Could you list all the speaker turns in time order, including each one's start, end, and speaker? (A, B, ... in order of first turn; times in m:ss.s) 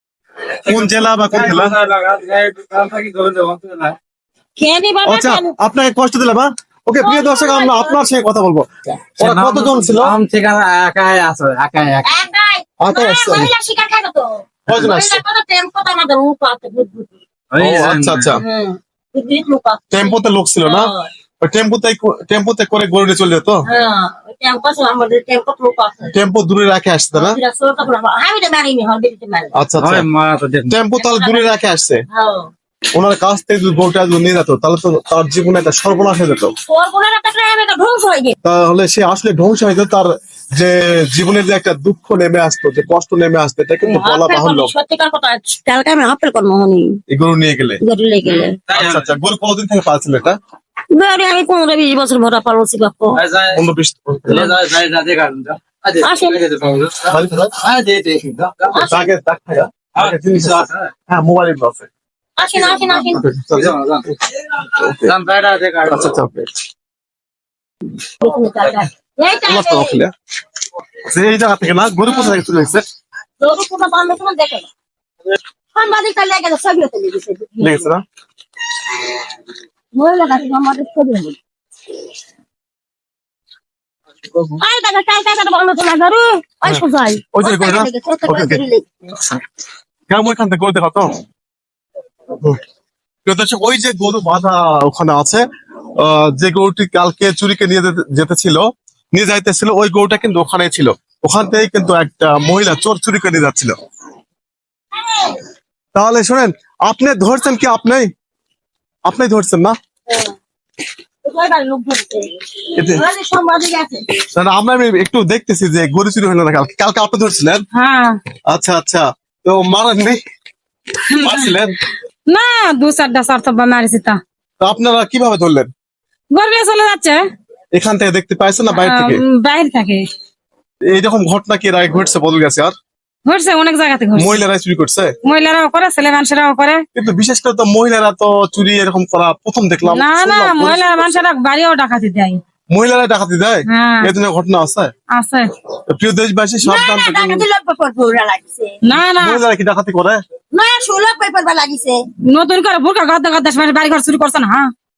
0:00.7-0:01.8 A
0:00.7-0:04.0 B
0:04.6-0:05.5 C
0:05.0-0:08.7 A
0:07.0-0:08.1 C
0:09.2-0:10.1 A
0:09.2-0:12.2 B
0:12.1-0:17.1 C
0:12.8-0:13.5 A
0:14.7-0:15.2 A
0:17.5-0:18.3 B
0:17.6-0:18.4 A
0:18.4-0:21.1 C
0:19.9-0:20.9 A
0:21.4-0:23.6 A
0:23.7-0:26.1 C
0:26.1-0:27.4 A
0:27.2-0:29.6 C
0:29.6-0:30.1 A
0:29.8-0:30.8 B
0:30.7-0:32.0 A
0:31.0-0:31.5 C
0:32.1-0:32.5 C
0:33.0-0:36.5 A
0:36.7-0:38.4 C
0:38.4-0:44.7 A
0:43.8-0:47.0 C
0:47.1-0:47.8 A
0:47.8-0:48.6 C
0:48.4-0:49.1 B
0:48.7-0:50.4 A
0:50.9-0:53.2 C
0:53.2-0:53.6 B
0:53.5-0:54.5 A
0:54.3-0:58.8 B
0:56.0-0:56.4 C
0:57.1-0:57.5 A
0:58.7-0:59.1 C
0:58.9-1:01.9 A
1:00.0-1:00.9 B
1:02.4-1:03.3 C
1:02.6-1:06.1 B
1:03.0-1:04.1 A
1:04.6-1:05.1 A
1:05.9-1:06.5 A
1:08.2-1:10.0 C
1:09.5-1:10.1 A
1:11.1-1:12.8 A
1:13.4-1:14.7 C
1:15.8-1:17.9 C
1:17.6-1:18.0 A
1:20.0-1:21.4 C
1:24.6-1:29.2 C
1:26.6-1:28.6 A
1:30.1-1:31.2 A
1:33.3-1:35.4 A
1:36.0-1:43.7 A
1:45.0-1:45.4 C
1:46.0-1:48.1 A
1:49.0-1:49.7 A
1:50.1-1:50.4 C
1:51.2-1:54.1 C
1:52.8-1:53.0 A
1:54.3-1:57.6 A
1:57.8-1:58.2 D
1:58.5-2:00.2 A
2:01.1-2:01.8 A
2:01.2-2:01.5 D
2:02.3-2:04.2 D
2:04.6-2:05.7 A
2:06.3-2:07.2 D
2:07.8-2:09.2 A
2:08.7-2:10.0 D
2:10.9-2:12.7 A
2:13.3-2:14.4 D
2:14.2-2:15.1 A
2:15.2-2:16.8 D
2:17.0-2:21.2 A
2:19.9-2:22.4 D
2:22.7-2:24.9 A
2:23.7-2:24.1 D
2:25.1-2:25.5 D
2:25.9-2:27.5 A
2:26.6-2:28.8 C
2:28.8-2:29.4 D
2:29.2-2:30.2 A
2:30.5-2:32.0 C
2:32.3-2:34.7 D